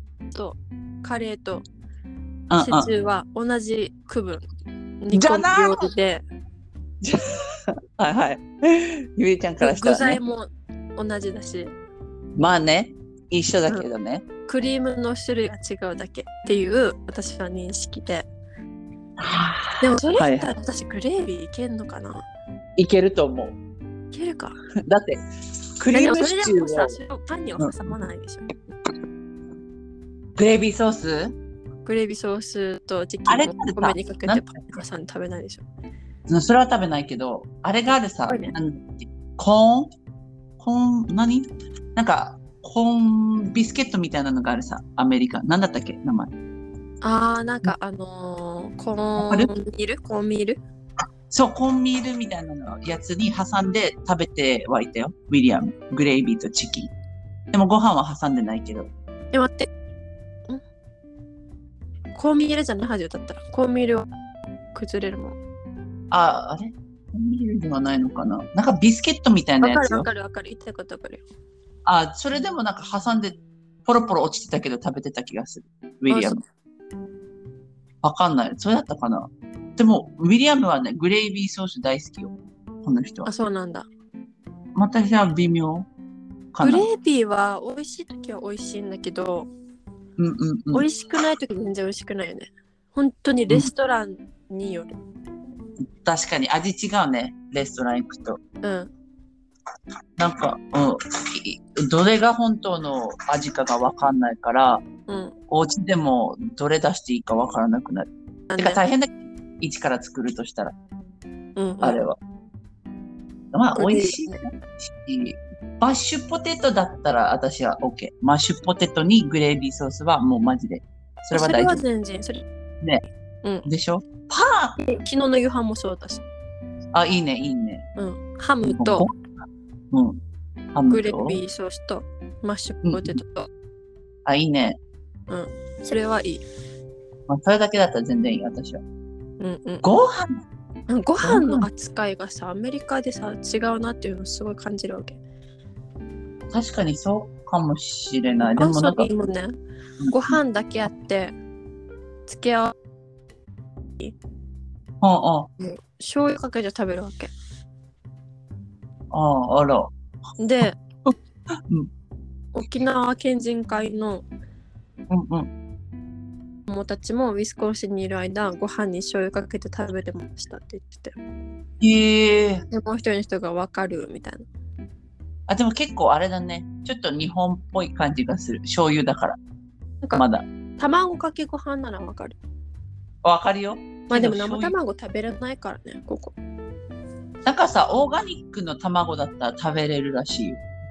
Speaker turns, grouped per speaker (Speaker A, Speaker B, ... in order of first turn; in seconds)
Speaker A: 0.3-1.6, 2.6-4.4, 5.0-6.2, 9.6-11.7, 14.5-18.3, 19.8-22.2, 24.1-24.5, 25.9-28.4, 31.9-35.6, 38.3-38.5, 47.0-50.6, 59.3-59.7, 62.1-64.1, 64.7-65.4, 69.6-71.2, 76.1-76.4, 83.2-83.9, 86.6-89.5, 90.7-95.0, 98.6-98.9, 105.1-105.3, 108.5-108.8, 111.5-112.0, 113.7-114.4, 121.3-122.4, 124.8-126.2, 128.0-129.1, 130.9-133.5, 135.3-136.4, 139.4-139.8, 140.9-145.2, 148.4-149.6, 150.1-151.3, 152.3-152.7, 155.6-157.3, 160.4-160.8, 162.5-164.2, 166.7-171.2, 172.7-174.4, 180.8-182.4, 184.1-186.3
Speaker B: 2.5-2.9, 5.1-5.9, 7.0-10.2, 12.3-14.2, 19.2-20.5, 22.8-23.6, 24.8-25.2, 25.8-26.9, 27.6-28.0, 30.4-31.3, 33.3-34.5, 36.3-39.9, 40.6-46.3, 49.2-49.5, 51.3-56.9, 57.5-58.9, 66.1-70.0, 71.8-76.4, 78.0-83.3, 84.7-85.9, 86.5-86.9, 90.2-90.8, 96.0-98.4, 100.2-104.8, 105.5-110.7, 111.8-112.2, 113.5-121.8, 123.6-124.7, 126.9-127.8, 128.6-129.2, 129.9-130.2, 130.7-131.4, 132.8-133.2, 134.2-134.8, 137.3-138.8, 139.8-140.4, 141.2-141.7, 146.5-149.1, 150.0-150.4, 155.0-155.5, 159.1-159.9, 160.6-161.1, 165.1-165.5, 171.8-172.6, 175.5-179.4, 180.1-180.4, 183.2-184.7, 187.4-190.6